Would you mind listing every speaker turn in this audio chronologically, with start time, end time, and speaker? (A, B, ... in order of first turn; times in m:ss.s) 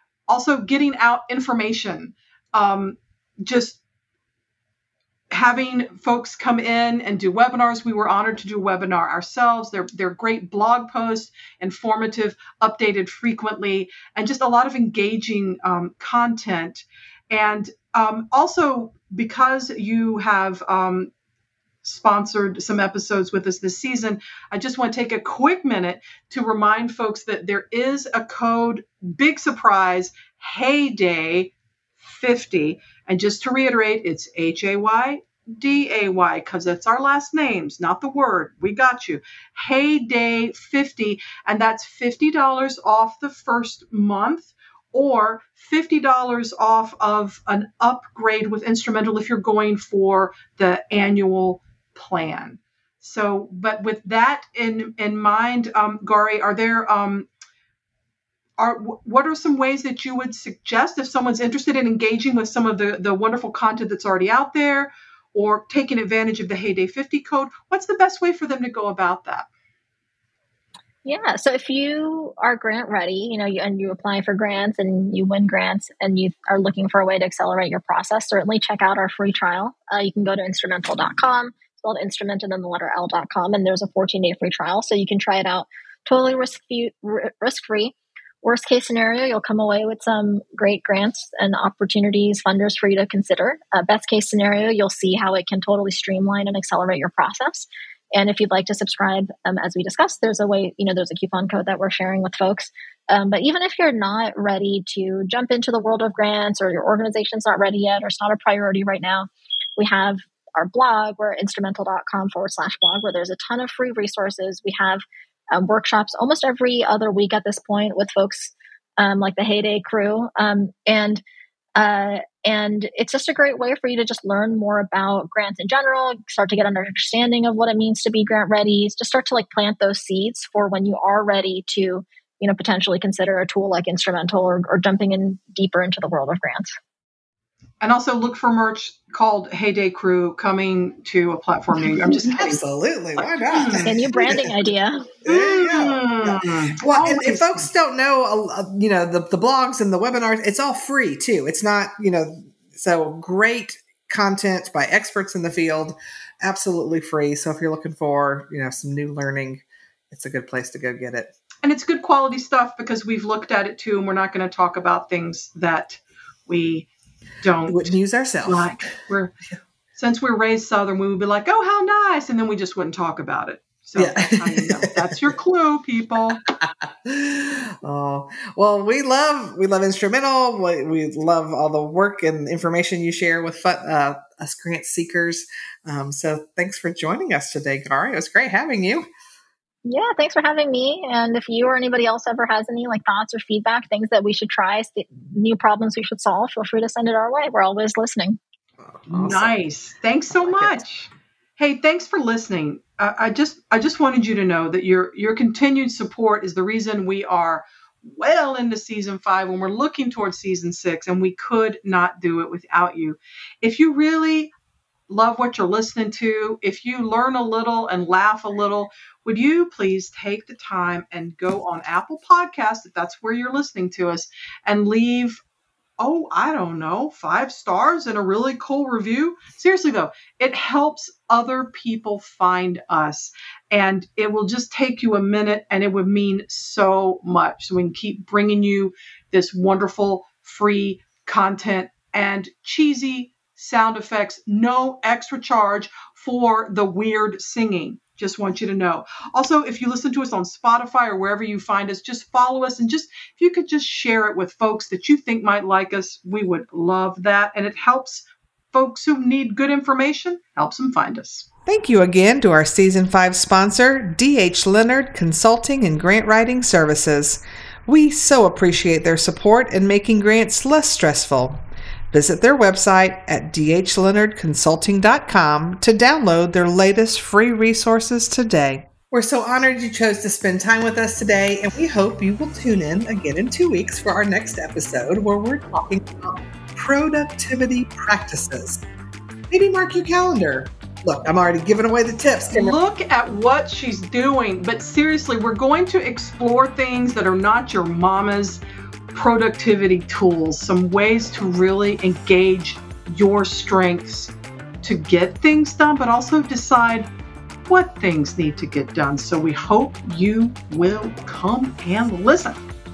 0:00.3-0:03.8 A
0:05.3-0:21.1 A
0:21.8-0:57.3 A
0:58.6-1:09.5 A
1:11.0-2:01.2 B
2:01.8-2:16.7 B
2:17.8-2:22.6 A
2:21.8-2:24.5 C
2:23.2-2:24.0 A
2:23.8-2:25.1 B
2:25.2-2:41.3 C
2:25.2-2:27.6 A
2:41.6-2:46.9 A
2:47.4-2:49.3 A
2:47.7-2:48.8 C
2:49.9-2:56.4 A
2:54.0-2:55.3 C
2:56.8-3:09.1 C
3:09.8-3:18.4 B
3:18.8-3:19.5 C
3:19.1-3:34.5 A
3:20.3-3:20.8 C
3:35.1-3:45.4 A
3:46.0-4:21.4 A
4:21.7-4:48.8 C
4:49.5-4:52.8 C
4:52.5-4:58.6 A
4:59.1-5:07.1 A
5:07.7-5:12.6 A